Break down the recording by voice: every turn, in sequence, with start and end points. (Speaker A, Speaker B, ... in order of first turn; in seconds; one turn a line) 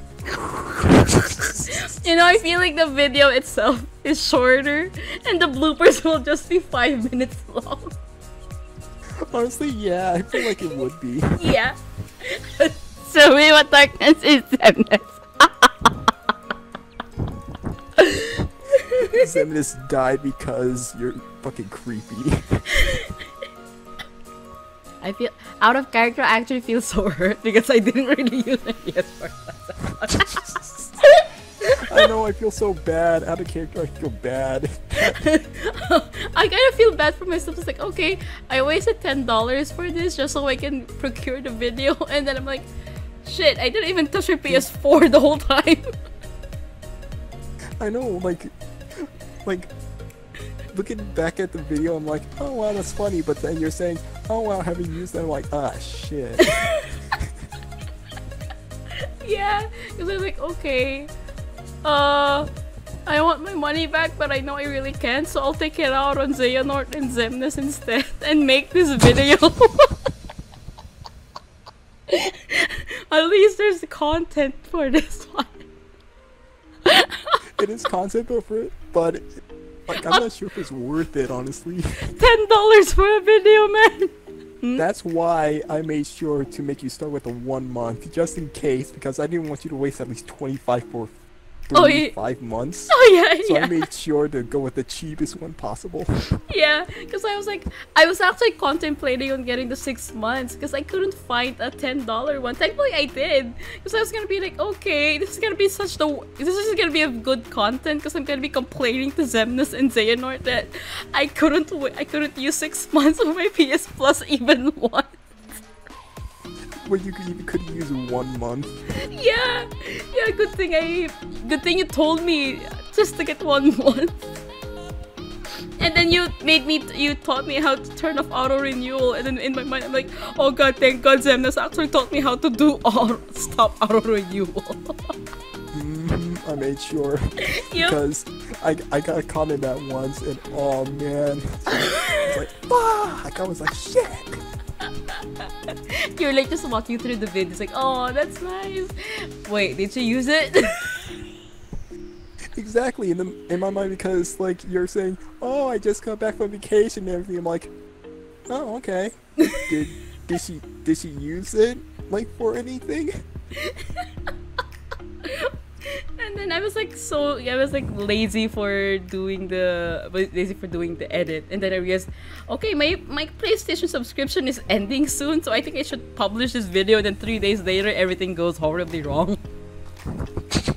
Speaker A: 0.2-1.8
Speaker B: 1.4-7.9
Speaker A: 9.3-11.4
Speaker B: 11.4-16.1
Speaker B: 18.0-19.4
Speaker A: 19.1-22.8
Speaker B: 22.8-23.1
Speaker B: 25.0-32.0
Speaker A: 30.3-30.8
Speaker A: 31.8-35.2
Speaker B: 35.0-42.7
Speaker B: 43.2-45.9
Speaker A: 47.8-49.7
Speaker A: 50.7-56.6
Speaker B: 56.4-57.0
Speaker B: 59.2-61.1
Speaker B: 61.8-62.5
Speaker B: 63.0-70.0
Speaker B: 72.1-75.7
Speaker B: 76.8-77.4
Speaker A: 77.6-82.1
Speaker B: 79.9-80.3
Speaker B: 82.0-84.8
Speaker A: 84.8-91.1
Speaker A: 91.7-96.1
Speaker B: 91.7-92.1
Speaker B: 92.9-93.9
Speaker B: 96.5-115.2
Speaker A: 116.8-118.7
Speaker B: 118.9-124.3
Speaker B: 125.8-135.1
Speaker A: 135.7-144.4
Speaker B: 137.4-138.0
Speaker B: 141.7-142.3
Speaker B: 144.8-151.1
Speaker A: 152.6-157.7
Speaker A: 158.5-163.2
Speaker B: 159.4-159.7
Speaker B: 163.6-164.3
Speaker B: 165.2-179.4